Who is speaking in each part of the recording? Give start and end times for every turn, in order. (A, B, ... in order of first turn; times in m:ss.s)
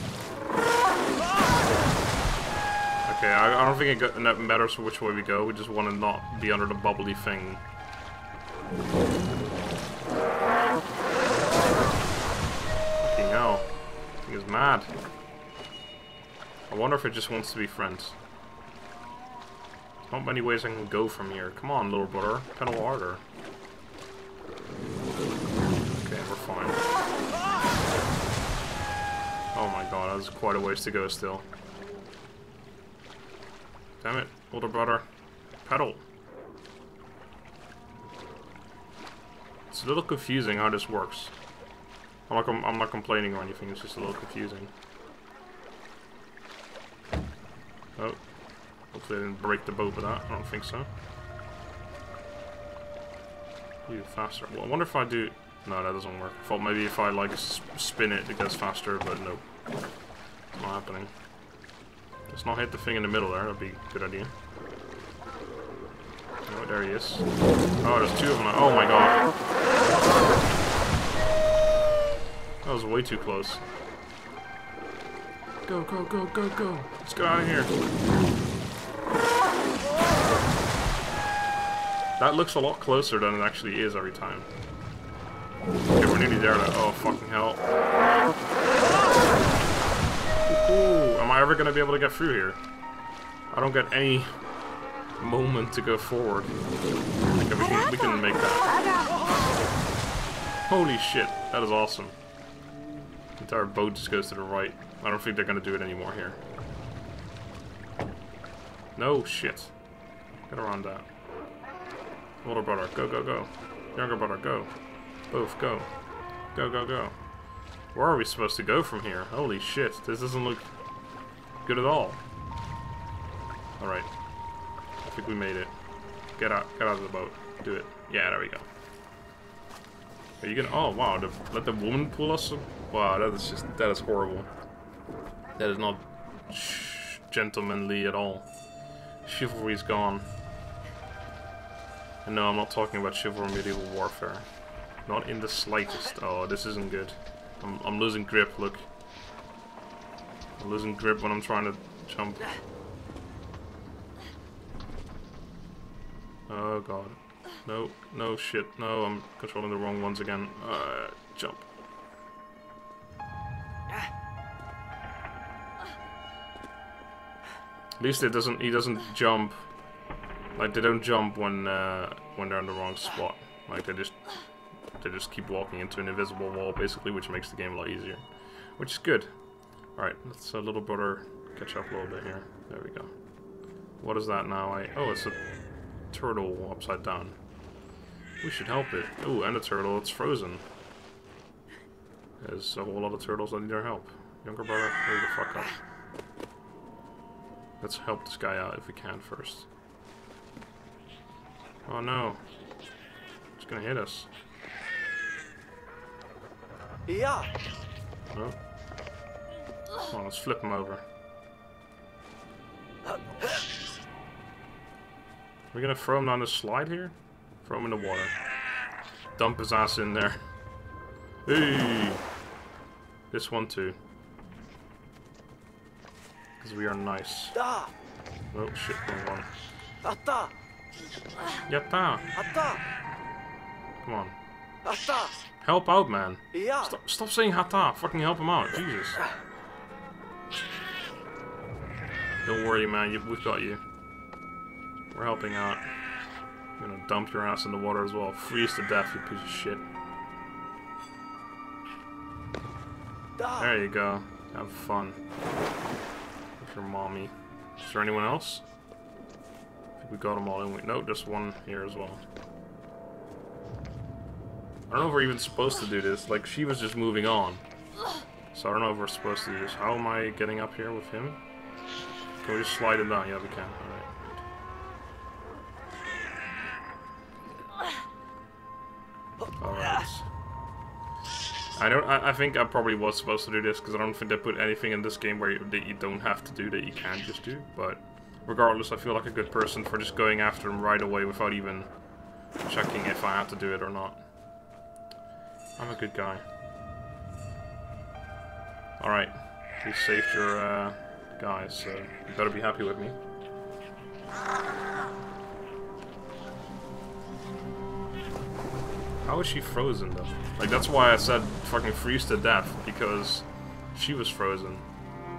0:03.0-0:07.6 A
0:13.0-0:13.7 A
0:14.2-0:14.9 A
0:16.7-0:18.2 A
0:20.1-0:23.2 A
0:25.9-0:26.8 A
0:29.5-0:31.5 A
0:34.0-0:35.0 A
0:35.6-0:36.0 A
0:39.7-0:41.3 A
0:42.3-0:44.7 A
0:48.9-0:50.9 A
0:53.9-0:59.4 A
1:00.5-1:01.1 A
1:02.3-1:04.3 A
1:06.5-1:07.3 A
1:07.8-1:09.3 A
1:12.6-1:13.6 A
1:15.6-1:17.7 A
1:22.2-1:24.5 A
1:25.9-1:27.6 A
1:30.4-1:32.6 A
1:33.5-1:34.3 A
1:35.2-1:36.5 A
1:37.3-1:38.8 A
1:40.7-1:42.1 A
1:43.4-1:46.4 A
1:49.0-1:49.7 A
1:50.5-1:51.1 A
1:52.4-1:54.7 A
1:55.3-1:55.9 A
1:56.5-1:57.2 A
1:57.9-2:00.6 A
2:01.6-2:02.2 A
2:03.8-2:04.1 A
2:05.0-2:05.7 A
2:06.4-2:08.7 A
2:10.4-2:14.5 A
2:15.6-2:18.5 A
2:19.2-2:20.3 A
2:22.2-2:24.5 A
2:25.0-2:28.8 A
2:30.6-2:32.5 A
2:36.5-2:41.6 A
2:48.0-2:49.6 A
2:50.5-2:54.2 A
2:55.0-2:58.2 A
2:58.8-2:59.3 A
3:00.0-3:03.1 A
3:04.0-3:05.4 A
3:06.1-3:07.4 A
3:08.4-3:10.6 A
3:12.4-3:15.7 A
3:17.8-3:19.7 A
3:21.8-3:22.4 A
3:23.6-3:24.3 A
3:27.0-3:27.5 B
3:28.3-3:28.6 A
3:30.1-3:31.0 A
3:35.7-3:38.3 A
3:39.4-3:40.4 A
3:41.4-3:42.2 A
3:43.3-3:44.0 A
3:46.6-3:47.6 A
3:47.5-3:47.9 B
3:48.5-3:49.5 A
3:50.0-3:50.5 B
3:51.7-3:52.3 A
3:52.3-3:52.8 B
3:54.0-3:54.4 A
3:54.8-3:55.4 B
3:55.6-3:59.2 A
3:56.5-3:56.9 B
4:02.4-4:03.8 A
4:05.1-4:05.8 A
4:06.8-4:09.9 A
4:13.6-4:15.2 A
4:16.6-4:18.6 A
4:20.0-4:22.2 A
4:24.9-4:27.6 A
4:28.5-4:31.4 A
4:32.4-4:34.3 A
4:39.6-4:40.3 A
4:41.8-4:51.9 A
4:52.6-4:54.2 A
4:55.8-4:56.4 A
4:59.0-5:03.2 A
5:09.2-5:14.8 A